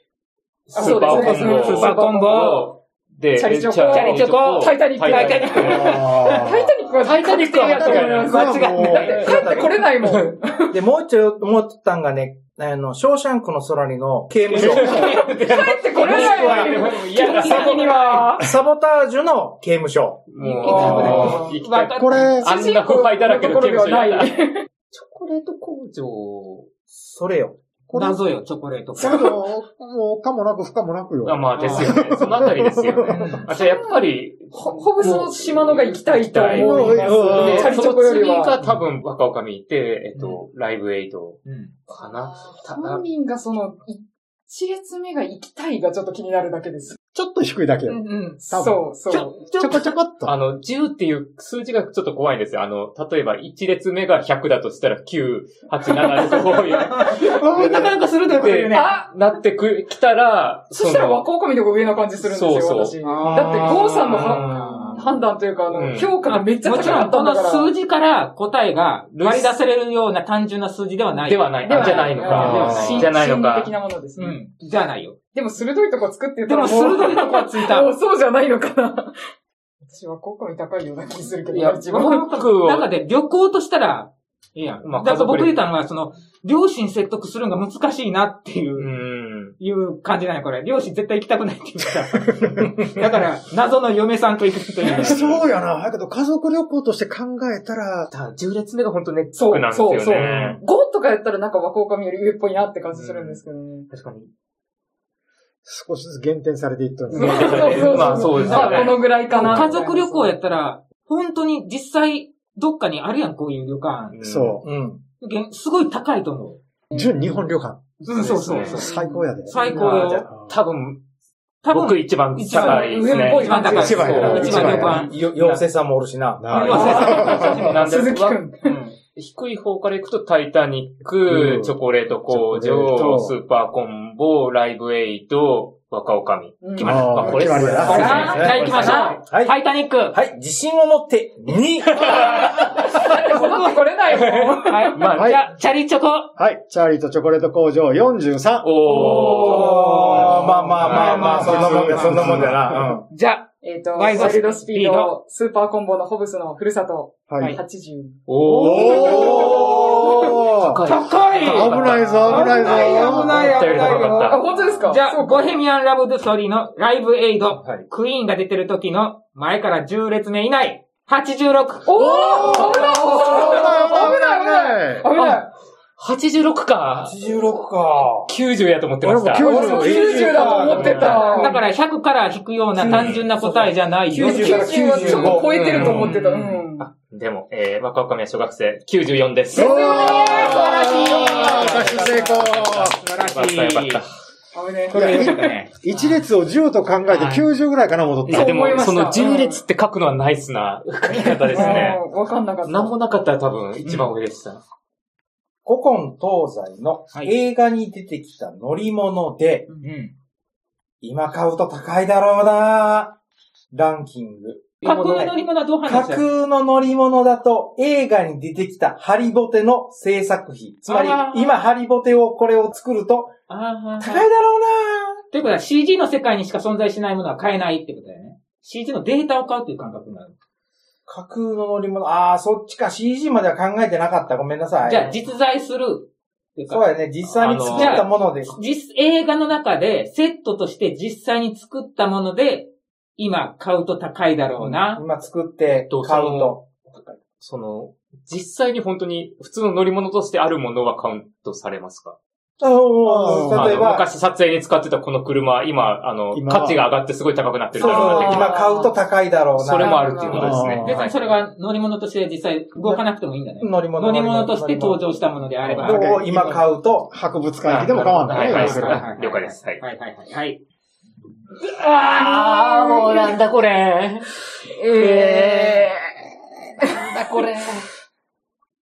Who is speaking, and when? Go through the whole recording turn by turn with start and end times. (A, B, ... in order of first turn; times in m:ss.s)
0:00.7-0:06.4 A
0:00.7-0:02.7 B
0:00.7-0:02.7 C
0:03.3-0:10.8 C
0:03.8-0:06.4 B
0:05.6-0:06.7 D
0:07.0-0:09.4 B
0:07.7-0:08.2 A
0:07.8-0:09.4 D
0:09.1-0:09.9 E
0:10.0-0:10.3 A
0:10.7-0:15.1 E
0:14.4-0:18.2 B
0:14.6-0:15.0 D
0:14.8-0:18.5 C
0:15.8-0:18.3 A
0:18.4-0:20.3 E
0:20.3-0:24.4 A
0:20.4-0:22.4 B
0:20.6-0:21.5 C
0:20.8-0:21.3 D
0:21.9-0:22.5 D
0:22.4-0:24.6 C
0:24.9-0:26.7 A
0:26.9-0:27.6 E
0:27.9-0:28.2 D
0:27.9-0:29.4 B
0:29.0-0:33.4 D
0:31.2-0:43.0 A
0:31.6-0:32.0 B
0:33.1-0:33.5 B
0:33.2-0:38.6 C
0:36.3-0:37.8 D
0:40.2-0:40.4 B
0:41.4-0:41.7 B
0:41.9-0:47.0 C
0:47.1-0:48.8 D
0:47.9-0:48.4 B
0:48.4-0:49.4 C
0:49.1-0:49.9 B
0:49.4-0:50.4 D
0:50.2-1:01.2 A
0:55.9-0:59.0 B
0:57.3-0:57.9 D
0:58.7-0:59.1 C
1:00.7-1:07.7 C
1:02.2-1:03.0 A
1:03.0-1:05.0 B
1:03.2-1:04.8 E
1:03.9-1:04.9 A
1:05.7-1:06.2 A
1:06.2-1:13.1 B
1:11.2-1:13.7 A
1:11.6-1:14.4 C
1:14.2-1:15.2 B
1:15.3-1:19.2 C
1:16.4-1:17.9 B
1:19.8-1:22.3 C
1:21.5-1:22.9 A
1:21.9-1:28.9 B
1:24.8-1:25.6 A
1:28.8-1:29.6 A
1:29.6-1:35.4 B
1:34.9-1:38.1 D
1:35.0-1:35.4 A
1:38.1-1:40.6 A
1:39.3-1:43.9 C
1:40.2-1:40.6 D
1:42.9-1:44.3 A
1:45.6-1:48.4 D
1:47.1-1:50.3 C
1:47.1-1:49.6 A
1:48.0-1:54.2 B
1:49.4-1:49.7 D
1:54.1-1:54.6 A
1:54.2-1:54.6 D
1:54.6-1:55.0 E
1:55.2-1:56.6 B
1:56.9-1:57.2 C
1:56.9-1:59.6 D
1:58.0-2:00.3 B
1:58.2-1:58.9 A
1:58.8-1:59.9 C
1:59.6-2:01.0 A
1:59.7-2:00.3 E
2:01.6-2:05.2 B
2:01.7-2:05.6 A
2:02.5-2:04.9 C
2:03.7-2:05.0 D
2:04.4-2:07.0 E
2:06.4-2:07.6 D
2:06.5-2:07.8 B
2:06.6-2:08.4 A
2:06.7-2:08.8 C
2:08.6-2:09.0 B
2:09.1-2:19.2 A
2:11.2-2:11.8 D
2:12.3-2:13.3 D
2:16.6-2:17.2 C
2:16.7-2:20.2 B
2:16.8-2:18.4 D
2:17.6-2:19.6 E
2:17.8-2:19.2 C
2:20.1-2:22.4 E
2:21.9-2:23.0 A
2:22.0-2:26.3 B
2:22.5-2:25.1 C
2:24.0-2:25.4 A
2:25.1-2:25.4 D
2:26.4-2:32.7 D
2:28.6-2:33.0 A
2:28.9-2:33.1 E
2:29.0-2:32.5 B
2:29.1-2:29.3 C
2:33.1-2:35.1 B
2:33.6-2:40.2 C
2:37.3-2:37.6 D
2:38.3-2:44.9 A
2:38.5-2:40.8 D
2:38.8-2:40.3 B
2:40.8-2:52.4 B
2:41.4-2:43.6 D
2:43.8-2:44.1 E
2:44.1-2:45.6 C
2:47.5-2:47.9 A
2:51.8-2:55.5 C
2:51.9-2:55.3 D
2:56.0-2:57.2 A
2:57.0-2:58.3 E
2:58.2-2:59.9 A
2:59.0-3:00.8 D
2:59.4-3:01.6 C
2:59.4-3:06.6 B
3:00.4-3:01.5 A
3:02.8-3:05.8 E
3:02.8-3:03.3 A
3:04.1-3:06.9 C
3:05.0-3:10.6 A
3:09.5-3:12.2 C
3:09.5-3:13.0 D
3:09.7-3:14.0 B
3:11.2-3:14.1 A
3:14.5-3:15.5 C
3:14.9-3:16.1 B
3:14.9-3:18.8 D
3:17.1-3:17.5 A
3:18.2-3:22.0 A
3:18.3-3:19.1 B
3:18.3-3:19.6 C
3:21.1-3:21.9 B
3:21.4-3:22.9 C
3:22.6-3:24.6 A
3:25.6-3:29.7 E
3:29.8-3:30.1 B
3:31.0-3:33.2 E
3:33.7-3:43.3 E
3:34.8-3:36.2 B
3:40.8-3:41.6 B
3:43.5-3:44.3 B
3:44.0-3:45.2 E
3:45.3-3:50.3 B
3:51.1-3:55.1 E
3:54.8-3:56.9 B
3:56.7-3:58.6 E
3:57.3-3:58.1 A
3:57.7-4:05.0 B
4:04.6-4:07.2 E
4:05.9-4:06.6 A
4:07.4-4:12.2 A
4:12.6-4:14.1 E
4:13.0-4:13.8 D
4:13.5-4:18.6 A
4:16.3-4:16.9 D
4:17.8-4:20.6 E
4:17.8-4:19.0 C
4:19.6-4:21.4 A
4:19.8-4:20.6 C
4:20.3-4:21.0 D
4:20.8-4:26.2 B
4:23.6-4:25.0 E
4:25.7-4:29.1 D
4:25.8-4:27.1 E
4:27.6-4:29.8 A
4:28.3-4:30.6 B
4:31.6-4:34.3 A
4:32.0-4:33.4 C
4:34.6-4:36.2 C
4:34.8-4:35.9 A
4:36.8-4:37.2 C
4:36.9-4:37.8 A